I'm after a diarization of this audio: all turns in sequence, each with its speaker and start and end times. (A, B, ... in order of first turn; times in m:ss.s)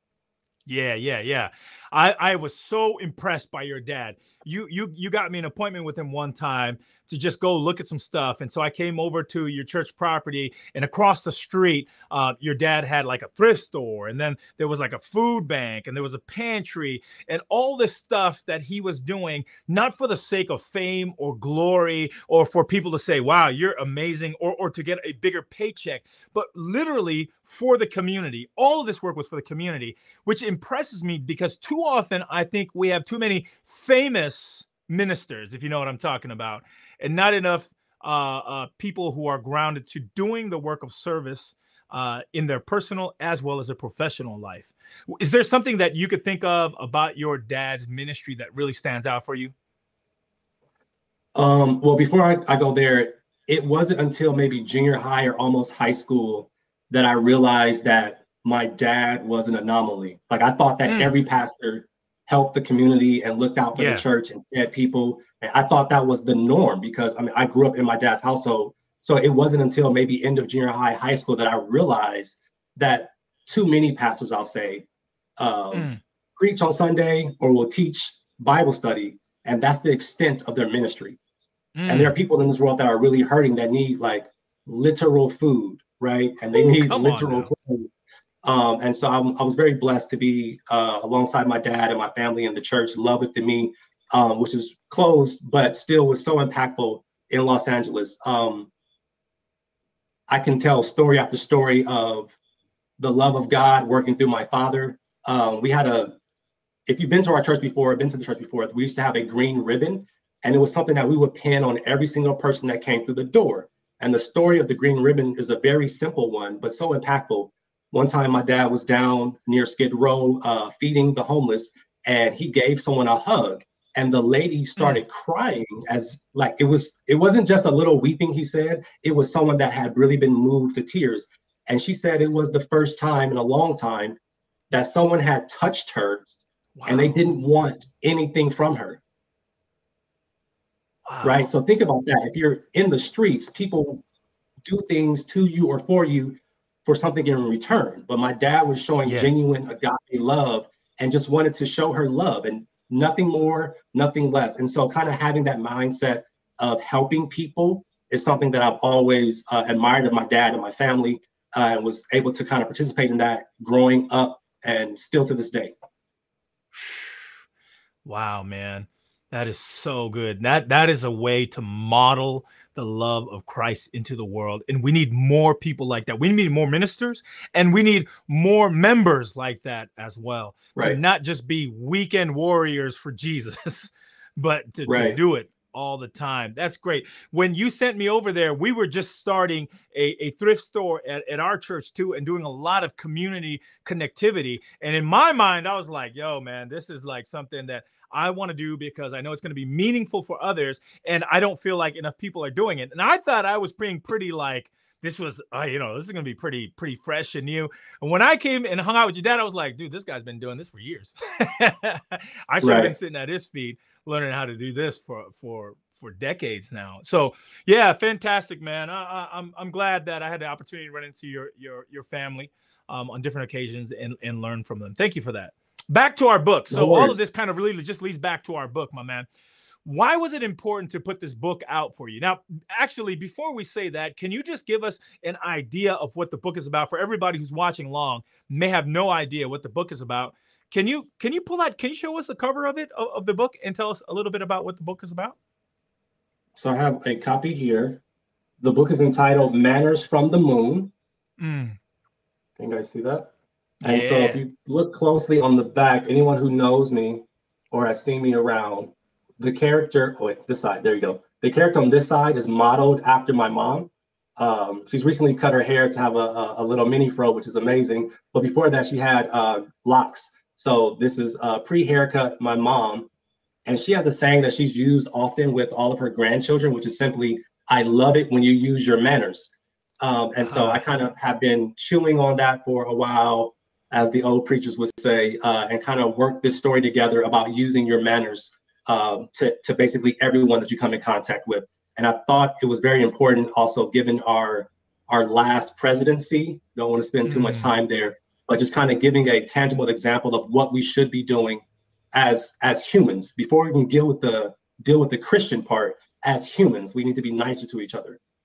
0:00.7-0:49.5 A
0:51.4-1:14.9 B
1:00.9-1:01.1 A
1:03.8-1:04.0 A
1:15.4-1:21.2 B
1:15.7-1:16.0 A
1:21.8-1:22.2 A
1:21.9-1:27.9 B
1:26.4-1:27.5 A
1:28.4-1:38.7 B
1:40.3-1:42.4 B
1:43.0-1:46.2 B
1:46.9-2:14.2 B
2:14.7-2:16.3 B
2:16.8-2:17.3 A
2:16.9-2:19.0 B
2:21.1-2:21.5 A
2:21.2-2:24.0 B
2:24.6-2:45.8 B
2:29.0-2:29.3 A
2:46.7-2:47.3 A
2:48.0-3:49.3 A
3:04.9-3:05.2 B
3:32.6-3:32.9 B
3:46.7-3:47.2 B
3:49.8-4:05.4 A
4:06.5-4:08.0 B
4:08.6-4:10.9 B
4:11.4-4:11.8 A
4:12.6-4:33.1 B
4:13.8-4:14.4 A
4:33.7-5:08.2 B
4:40.4-4:40.8 A
4:57.2-4:57.8 A